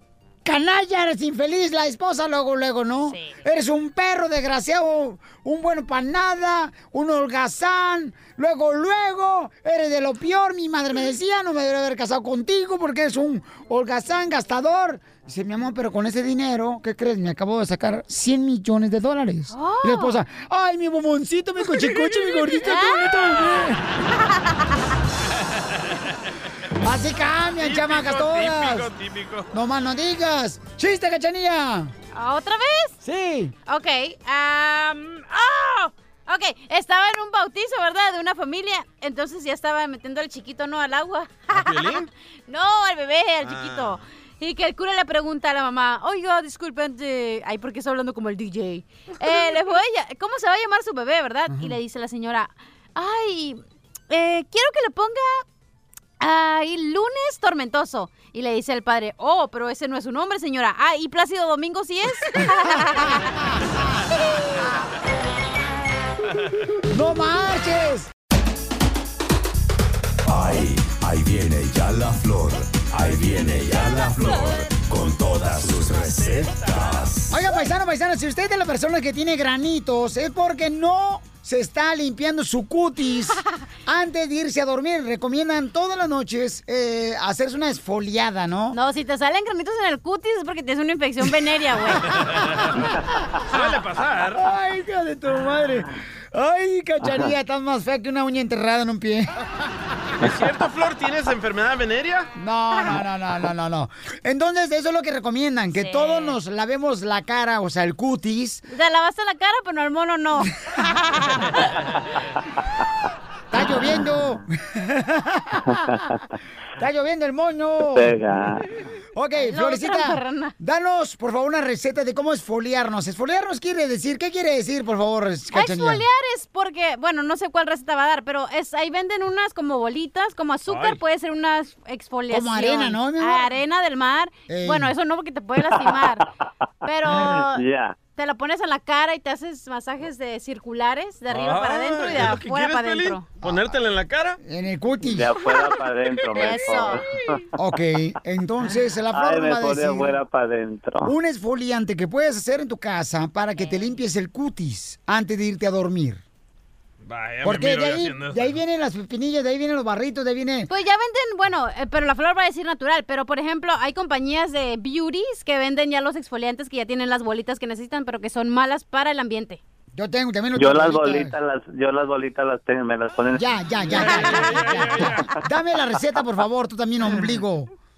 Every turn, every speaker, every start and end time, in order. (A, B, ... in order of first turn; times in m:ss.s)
0:00.4-0:23.8 A
0:19.5-0:20.2 B
0:22.6-0:23.2 B
0:26.8-0:28.9 A
0:27.6-0:29.5 C
0:29.5-0:31.9 A
0:32.1-0:33.0 B
0:33.0-0:33.5 A
0:33.6-0:55.4 B
0:41.5-0:42.1 C
0:43.4-0:44.0 C
0:51.5-0:51.8 A
0:56.2-1:03.3 B
1:06.9-1:08.1 A
1:10.2-1:17.4 D
1:16.5-1:16.8 C
1:17.3-1:28.8 A
1:28.7-1:32.1 B
1:32.2-1:32.6 C
1:33.4-1:34.5 C
1:34.3-1:39.3 A
1:40.2-1:42.3 C
1:42.3-1:48.6 A
1:45.7-1:46.4 B
1:48.7-1:51.7 B
1:53.5-1:55.8 A
1:55.7-1:56.1 E
1:56.8-1:58.2 A
1:57.9-1:58.6 E
1:59.1-2:06.0 A
1:59.4-2:00.5 B
2:05.5-2:16.2 B
2:10.7-2:11.0 C
2:12.3-2:13.5 A
2:14.5-2:14.9 A
2:15.7-2:16.1 E
2:16.8-2:17.6 B
2:17.0-2:18.0 E
2:18.1-2:23.3 B
2:21.3-2:24.4 C
2:24.4-2:25.3 A
2:25.1-2:27.2 E
2:26.3-2:27.0 B
2:27.6-2:30.2 A
2:29.1-2:31.1 E
2:31.0-2:36.2 A
2:33.6-2:33.9 B
2:37.0-2:38.6 C
2:37.4-2:40.7 A
2:40.7-2:49.6 B
2:49.9-2:51.4 A
2:50.6-2:54.5 E
2:53.3-2:57.7 A
2:54.2-2:55.2 C